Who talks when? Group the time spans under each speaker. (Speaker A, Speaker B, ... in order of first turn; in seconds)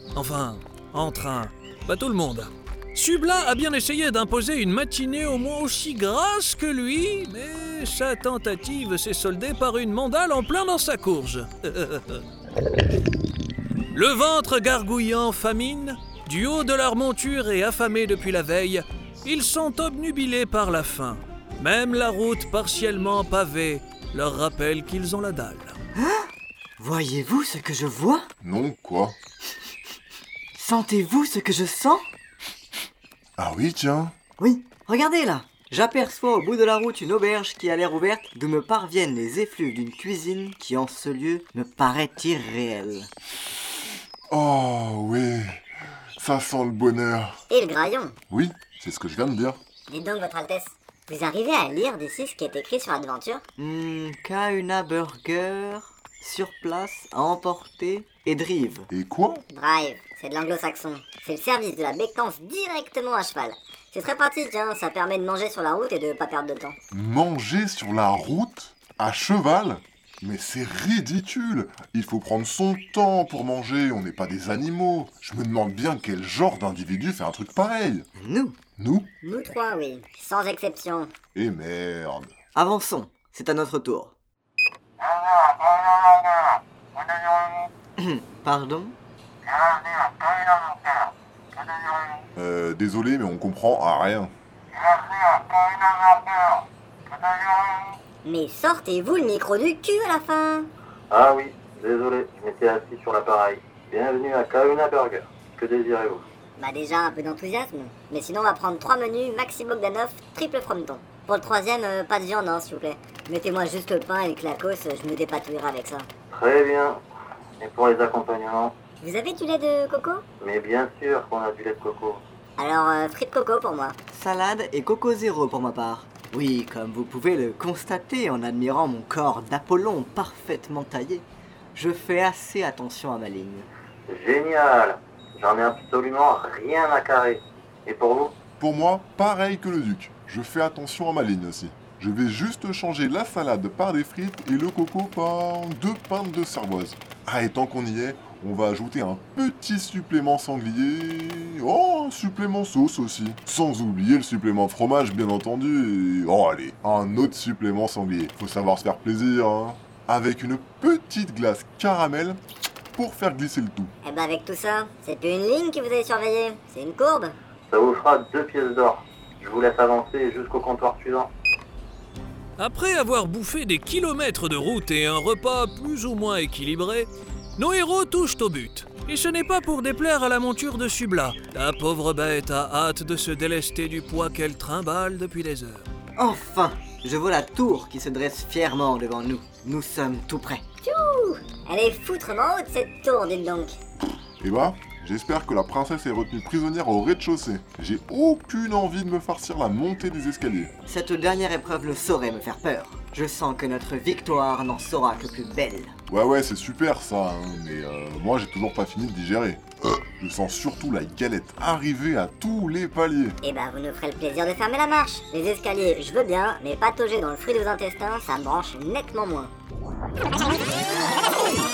Speaker A: 0.1-12.2, 13.9-25.8, 172.6-185.9
Speaker B: 25.9-28.3, 30.6-32.1, 34.4-43.1, 53.6-58.9, 78.2-78.6, 82.5-84.2, 88.0-89.0, 124.1-133.7, 186.2-190.6, 200.9-205.9
Speaker C: 28.4-29.2, 33.4-34.2, 44.3-45.6, 46.2-47.4, 48.3-49.6, 58.9-59.5, 66.9-78.1, 78.8-79.1, 81.3-82.3, 92.4-94.3, 138.6-162.4, 162.9-163.9, 194.4-200.7, 206.1-213.4
Speaker D: 47.5-48.2, 49.9-53.4, 59.5-66.8, 79.2-81.1, 98.2-100.7, 106.6-116.1, 119.0-120.2, 122.6-124.0, 164.0-167.4, 190.8-193.8, 213.4-219.5
Speaker E: 101.1-106.2, 116.3-117.0, 117.6-118.8, 120.4-122.2, 134.1-138.3, 167.7-171.3